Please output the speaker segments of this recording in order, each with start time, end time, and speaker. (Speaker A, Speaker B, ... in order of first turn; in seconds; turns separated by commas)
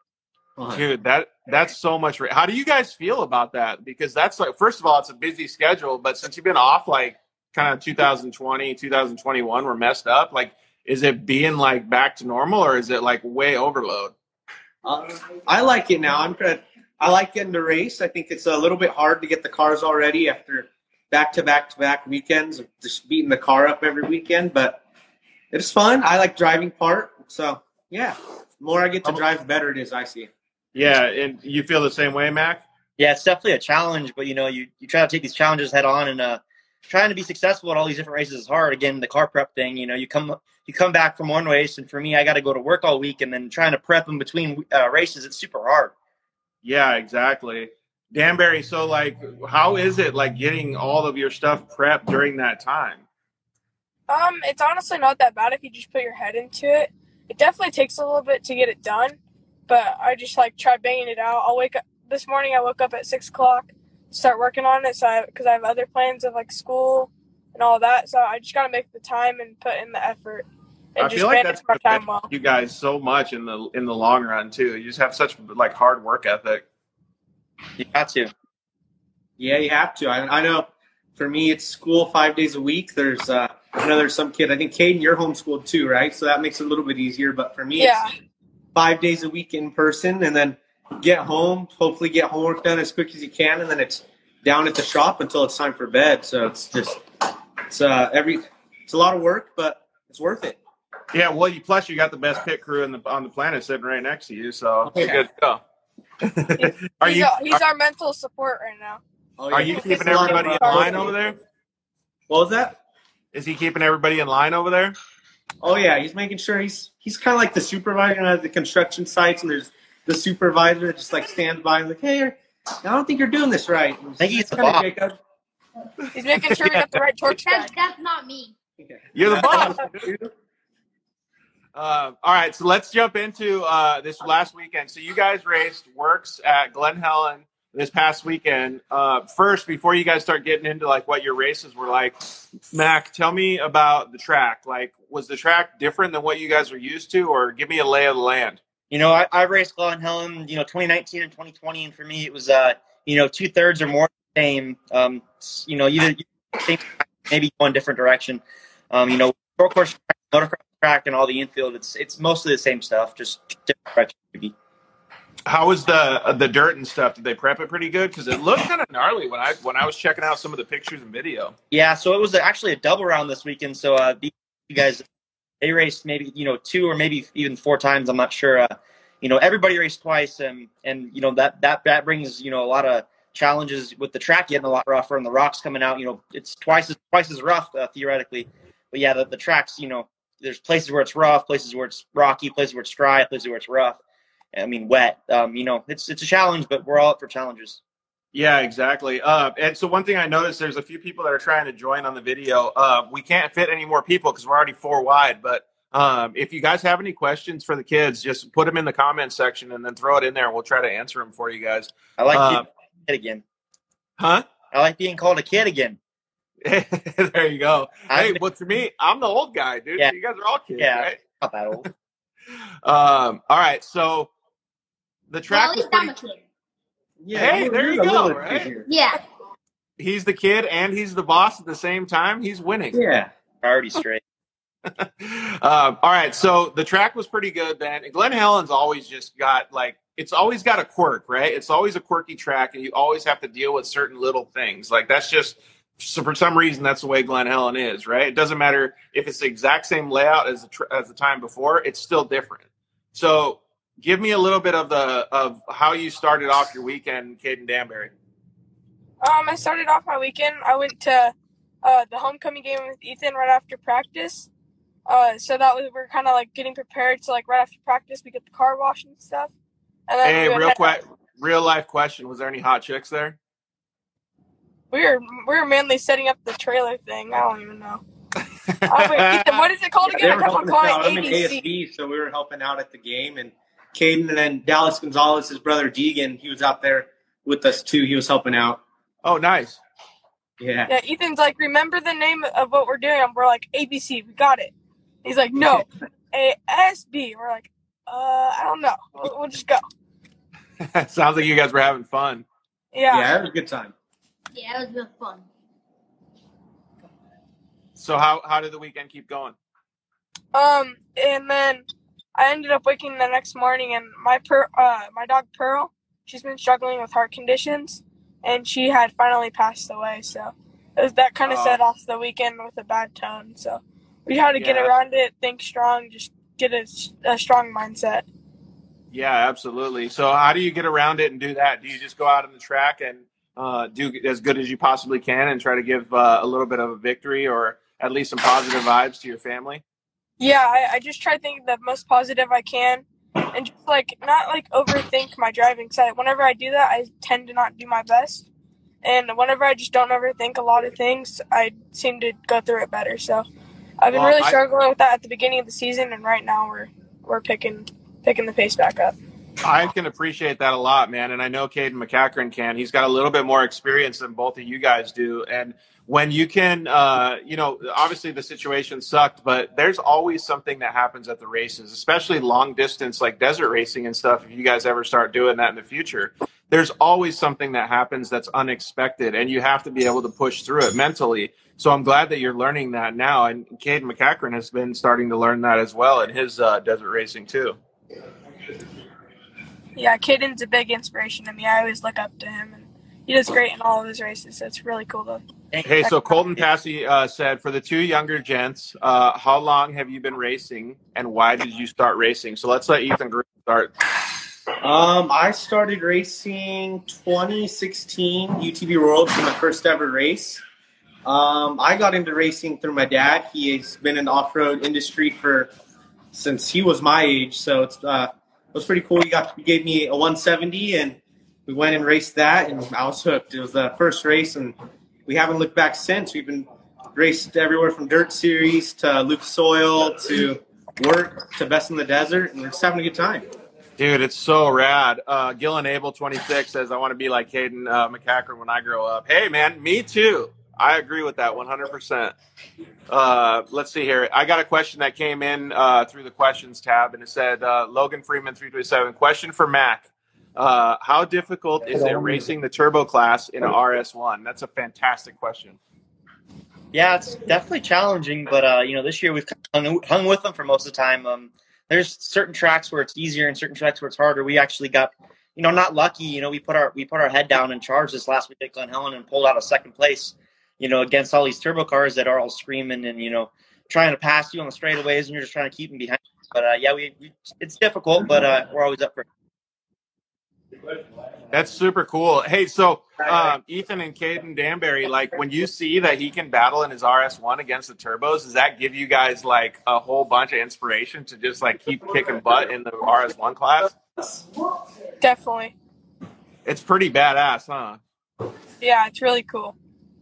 Speaker A: 0.6-0.8, Speaker B: 0.7-14.1, Speaker A: 14.8-24.8, Speaker A: 25.5-30.3, Speaker B: 30.7-32.6, Speaker C: 33.0-45.9, Speaker B: 46.6-53.0, Speaker D: 54.1-59.2, Speaker D: 59.7-72.3, Speaker B: 71.0-76.7, Speaker C: 77.8-78.3, Speaker A: 79.4-88.0, Speaker D: 87.8-88.1, Speaker A: 88.7-97.0, Speaker A: 97.7-100.6, Speaker B: 101.1-105.6, Speaker A: 104.8-105.2, Speaker B: 106.2-107.6, Speaker D: 106.6-109.0, Speaker A: 109.4-111.1, Speaker B: 109.5-111.4, Speaker D: 109.6-111.1, Speaker A: 112.3-112.8, Speaker B: 113.3-115.0, Speaker A: 115.6-125.2, Speaker C: 124.2-124.9, Speaker D: 126.1-127.7, Speaker B: 126.5-126.9, Speaker E: 127.3-128.5, Speaker A: 128.8-130.3, Speaker B: 129.1-129.9, Speaker D: 129.4-129.7, Speaker B: 131.7-142.1, Speaker B: 142.7-148.6, Speaker C: 148.9-164.5, Speaker B: 165.4-171.5, Speaker C: 171.7-175.0, Speaker C: 175.6-194.0, Speaker C: 194.5-197.8, Speaker B: 198.3-212.6, Speaker C: 212.2-213.4, Speaker B: 214.2-214.4, Speaker C: 214.7-216.0, Speaker B: 216.6-221.2, Speaker C: 218.1-218.4, Speaker C: 220.8-221.9, Speaker B: 222.8-224.3, Speaker B: 225.3-226.2, Speaker E: 225.5-226.4, Speaker A: 227.2-228.8, Speaker B: 227.3-228.7, Speaker E: 228.8-229.2, Speaker B: 230.0-233.0, Speaker A: 232.9-233.3, Speaker C: 233.6-234.2, Speaker B: 234.9-258.1, Speaker D: 259.2-264.5, Speaker D: 265.1-269.5, Speaker D: 270.1-271.0, Speaker B: 270.2-273.4, Speaker D: 274.9-278.0, Speaker B: 278.7-279.6, Speaker D: 278.9-281.6, Speaker A: 280.1-288.8, Speaker B: 289.2-289.8, Speaker A: 290.6-290.9, Speaker D: 290.9-294.7, Speaker D: 295.2-299.8, Speaker B: 300.8-302.4, Speaker D: 302.9-303.3, Speaker A: 303.1-303.9, Speaker E: 304.5-305.4, Speaker B: 307.9-309.6, Speaker D: 310.5-311.8, Speaker D: 312.4-328.2, Speaker B: 321.4-321.8, Speaker B: 324.6-324.9, Speaker B: 329.1-339.8, Speaker D: 340.4-348.5, Speaker D: 349.0-353.4, Speaker D: 354.0-359.1, Speaker B: 354.1-354.6, Speaker B: 359.6-387.8, Speaker D: 389.9-395.4, Speaker B: 395.8-403.9, Speaker A: 404.8-410.6, Speaker A: 411.2-415.7, Speaker A: 416.3-424.7, Speaker A: 425.2-433.4, Speaker B: 434.0-442.3, Speaker B: 443.1-455.8, Speaker C: 456.9-479.2, Speaker B: 481.5-493.9, Speaker D: 495.2-495.7, Speaker B: 496.6-498.0, Speaker D: 498.8-499.7